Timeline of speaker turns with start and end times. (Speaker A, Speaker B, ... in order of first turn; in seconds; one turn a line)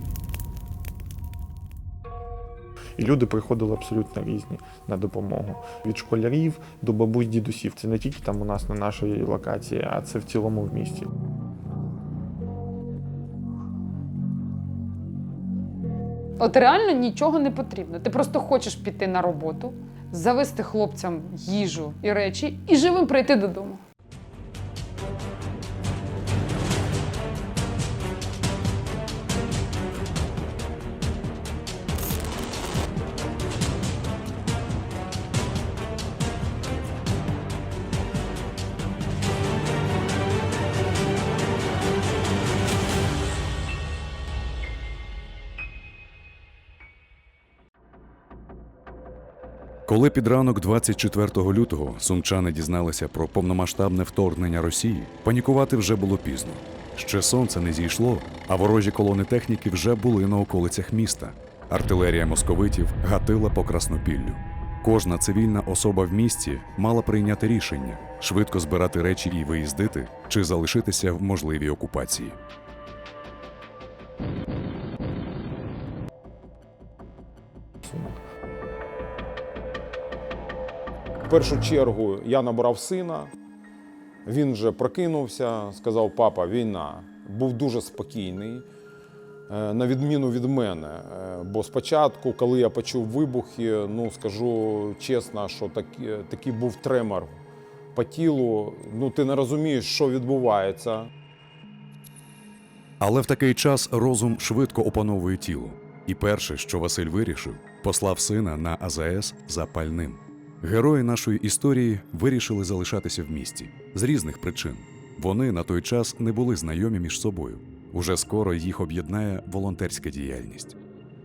Speaker A: 3.0-11.1
Speaker B: 16.4-23.8
Speaker C: 49.9-72.4
Speaker A: 77.8-78.2
Speaker D: 81.3-83.3
Speaker D: 84.3-88.7
Speaker D: 89.5-97.4
Speaker D: 98.0-101.1
Speaker C: 103.0-120.8